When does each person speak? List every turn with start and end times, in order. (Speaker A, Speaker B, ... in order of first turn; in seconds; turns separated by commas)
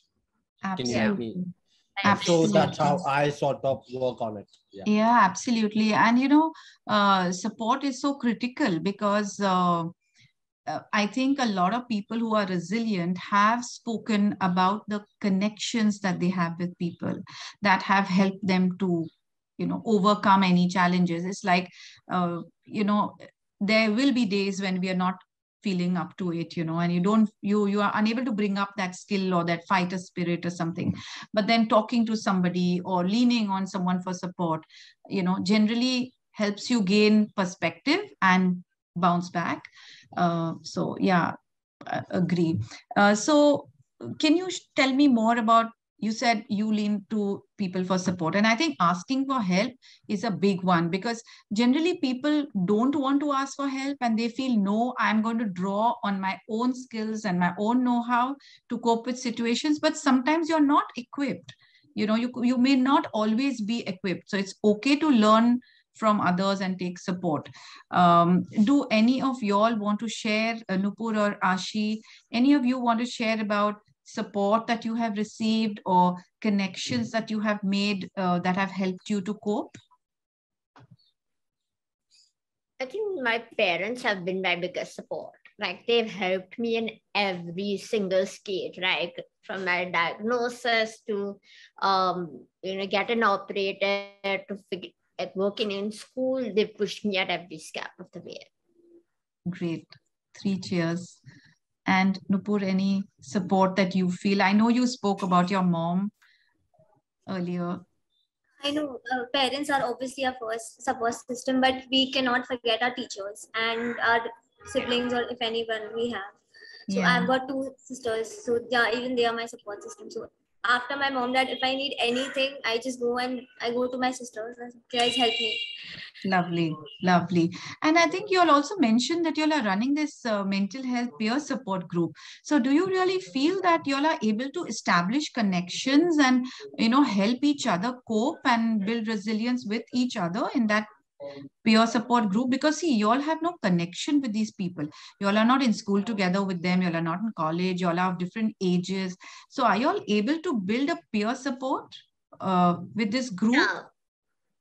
Speaker A: 0.6-1.5, Speaker B: 0.8-1.4, Speaker C: 0.9-1.2, Speaker C: 2.0-2.7, Speaker A: 2.0-3.0, Speaker B: 2.1-4.9, Speaker A: 4.9-9.9, Speaker A: 10.7-79.8, Speaker C: 82.8-98.5, Speaker A: 99.5-101.2, Speaker A: 101.9-106.1, Speaker A: 107.3-107.8, Speaker D: 108.6-116.4, Speaker A: 116.9-117.3, Speaker D: 116.9-125.7, Speaker A: 126.2-140.9, Speaker A: 141.6-153.7, Speaker C: 153.5-153.9